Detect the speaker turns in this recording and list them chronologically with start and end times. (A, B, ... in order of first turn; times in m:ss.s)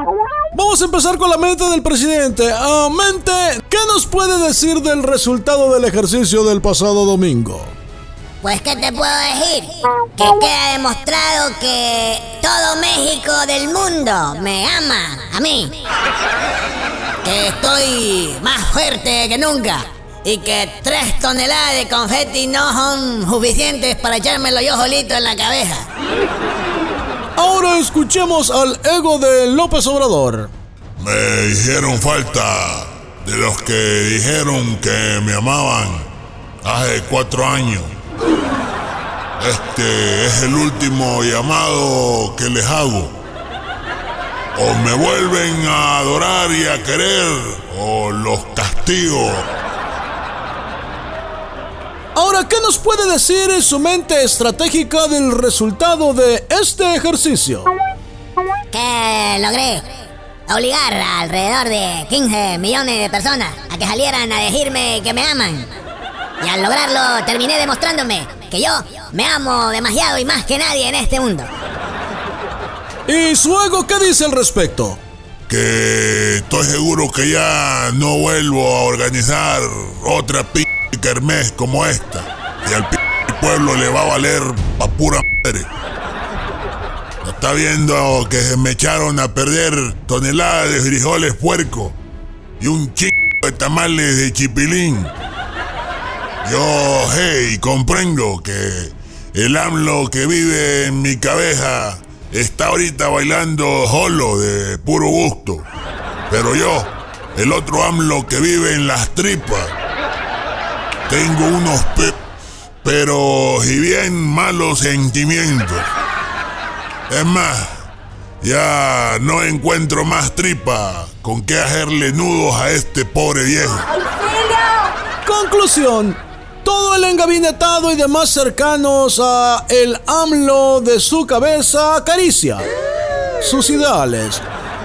0:00.5-0:07.7 A
0:08.4-0:15.8 B
0:17.2-0:25.9 B
0:27.4-0:30.5 A
0:31.0-0:36.1 C
0:36.6-0:37.9 C
0:39.4-0:43.2 C
0:44.6-0:49.5 C
0:52.2-0:57.7 A
0:58.7-0:59.8 B
1:00.5-1:05.7 B
1:06.4-1:11.5 B
1:13.1-1:15.0 A
1:15.5-1:25.7 C
1:27.2-1:32.0 C
1:32.6-1:35.1 C
1:36.4-1:45.7 C
1:46.3-1:49.7 C
1:51.1-1:52.2 C
1:52.8-1:55.9 C
1:57.1-1:57.7 C
1:58.4-2:03.9 C
2:04.4-2:04.7 A
2:05.2-2:12.7 A
2:13.4-2:14.4 A